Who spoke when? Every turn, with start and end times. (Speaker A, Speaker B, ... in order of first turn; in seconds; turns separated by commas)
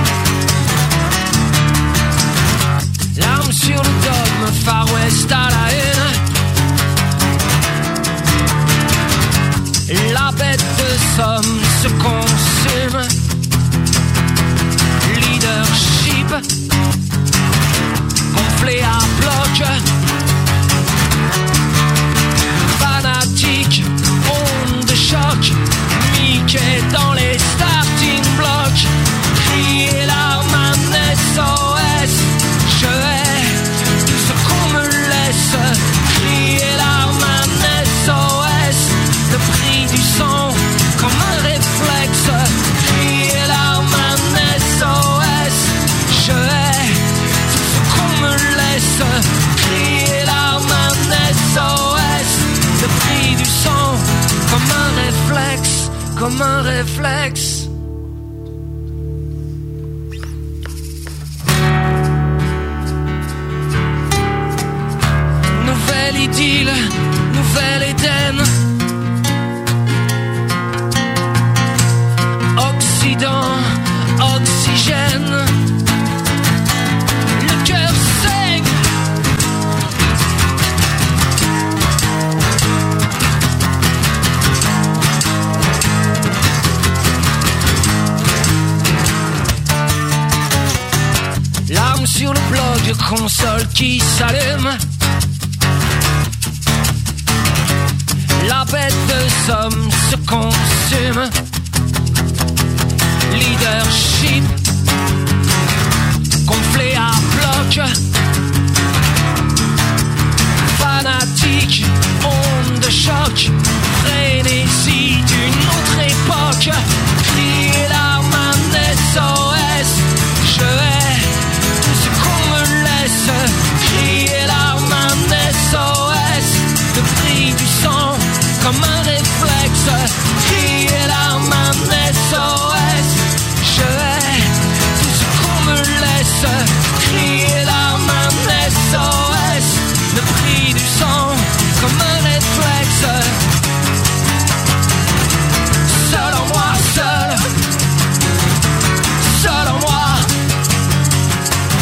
Speaker A: 3.1-6.2, Speaker A: 9.9-13.1, Speaker A: 15.0-16.4, Speaker A: 18.3-19.8, Speaker A: 22.7-57.7, Speaker A: 65.5-68.5, Speaker A: 72.5-75.5, Speaker A: 77.3-78.8, Speaker A: 91.7-94.8, Speaker A: 98.3-101.3, Speaker A: 103.3-104.5, Speaker A: 106.4-107.9, Speaker A: 110.7-143.4, Speaker A: 145.8-147.4, Speaker A: 149.2-150.3